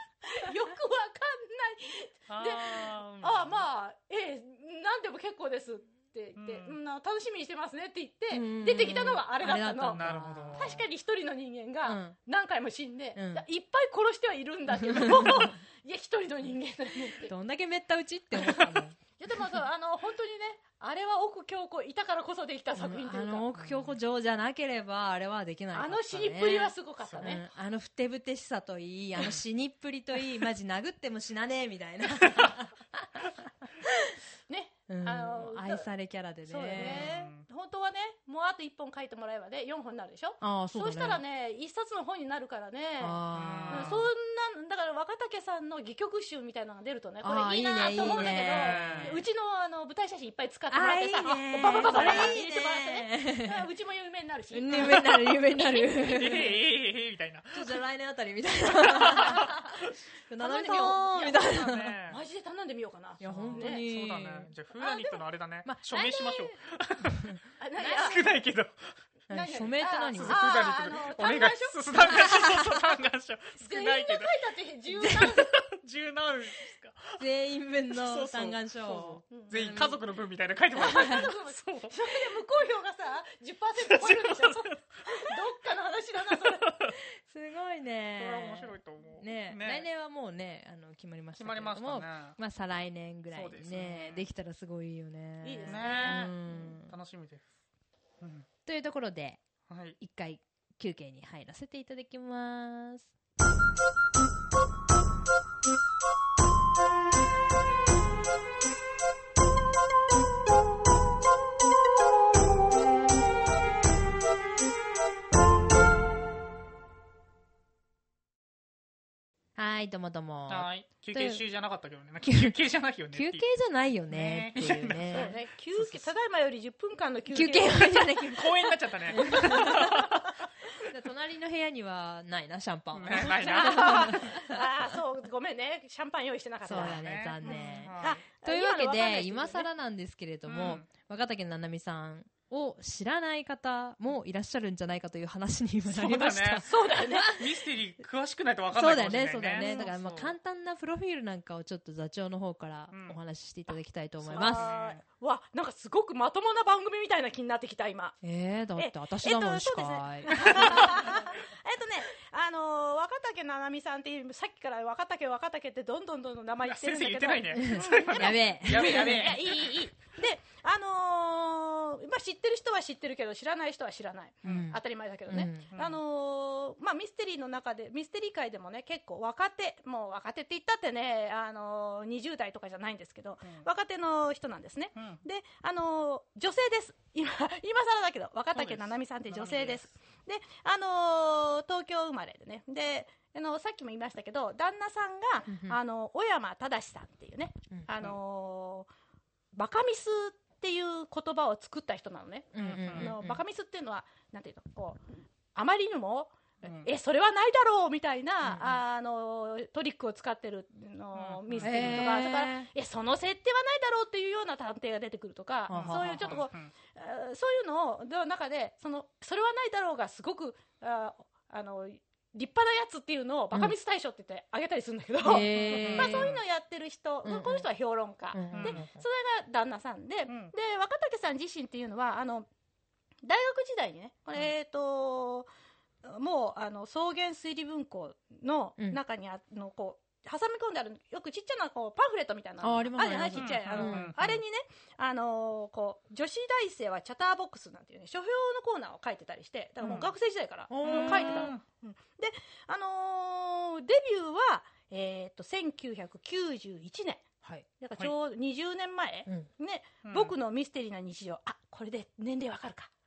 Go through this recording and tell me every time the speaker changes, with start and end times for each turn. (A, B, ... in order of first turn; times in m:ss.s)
0:00.2-0:10.0 A
0:02.3-0:03.6 B
0:06.4-0:06.7 B
0:08.3-0:10.8 C
0:10.0-0:10.8 B
0:10.6-0:17.3 A
0:11.8-0:12.2 C
0:13.2-0:13.4 C
0:14.8-0:15.5 C
0:17.2-0:19.0 C
0:19.2-0:23.5 A
0:22.8-0:34.1 C
0:23.6-0:23.9 B
0:25.7-0:27.4 A
0:27.0-0:27.3 B
0:34.5-0:35.9 A
0:34.9-0:37.1 C
0:36.5-0:56.5 A
0:36.7-0:37.4 B
0:40.4-0:41.2 C
0:43.0-0:44.0 C
0:43.3-0:44.0 B
0:47.2-0:49.2 C
0:48.0-0:49.2 B
0:50.7-0:53.6 C
0:51.6-0:52.4 B
0:54.5-0:56.7 C
0:54.7-0:55.0 B
0:55.9-0:57.8 B
0:57.5-1:02.0 C
0:58.7-0:59.9 B
0:59.2-0:59.6 A
1:00.4-1:03.8 A
1:01.3-1:02.2 B
1:03.2-1:04.5 C
1:03.2-1:08.9 B
1:04.8-1:05.2 A
1:05.6-1:06.1 C
1:05.9-1:06.5 A
1:07.6-1:08.2 A
1:09.3-1:10.4 C
1:09.3-1:12.3 A
1:10.1-1:14.4 B
1:12.1-1:12.8 C
1:13.6-1:15.6 A
1:15.0-1:15.3 C
1:15.1-1:17.2 B
1:17.2-1:20.0 C
1:17.9-1:22.0 B
1:19.3-1:19.8 A
1:20.8-1:26.8 A
1:20.8-1:21.2 C
1:23.8-1:24.8 B
1:27.1-1:36.9 C
1:28.2-1:29.9 B
1:31.4-1:32.4 B
1:33.3-1:34.2 B
1:35.4-1:36.3 A
1:35.7-1:37.5 B
1:38.2-1:38.5 B
1:38.6-1:39.4 C
1:39.7-1:40.0 B
1:40.0-1:43.1 C
1:59.6-2:01.4 C
2:00.5-2:03.5 B
2:02.2-2:02.5 C
2:03.1-2:05.4 C
2:04.1-2:05.8 B
2:05.1-2:08.2 A
2:07.3-2:10.2 C
2:08.2-2:10.3 B
2:09.3-2:09.9 A
2:10.8-2:14.6 C
2:12.9-2:14.3 B
2:13.2-2:19.7 A
2:16.6-2:27.5 C
2:16.7-2:18.2 B
2:20.4-2:20.8 B
2:25.9-2:30.3 B
2:26.6-2:27.4 A
2:28.7-2:34.7 C
2:29.6-2:29.9 A
2:32.9-2:33.2 B
2:34.2-2:35.0 B
2:34.3-2:38.2 A
2:38.2-2:41.2 C
2:38.8-3:18.9 A
2:46.6-2:49.8 B
2:47.6-2:49.4 C
2:54.4-2:55.7 C
2:54.4-2:54.7 B
2:55.7-2:56.0 B
3:05.0-3:05.2 B
3:08.5-3:09.9 B
3:15.5-3:15.8 C
3:19.5-3:25.0 A
3:22.5-3:23.4 C
3:22.6-3:23.1 B
3:25.5-3:52.5 A
3:26.6-3:26.9 B
3:28.4-3:28.8 C
3:31.1-3:32.1 B
3:31.6-3:32.7 C
3:35.7-3:36.4 C
3:35.7-3:36.7 B
3:45.2-3:46.4 C
3:45.5-3:46.4 B
3:47.2-3:47.7 C
3:48.3-3:49.0 C
3:48.5-3:48.9 B
3:50.3-3:50.5 B
3:53.2-3:55.5 A
3:56.0-4:17.3 A
4:02.6-4:04.1 C
4:03.4-4:04.4 B
4:09.8-4:10.1 B
4:10.7-4:11.5 C
4:10.8-4:11.6 B
4:17.8-4:22.9 A
4:20.0-4:20.3 B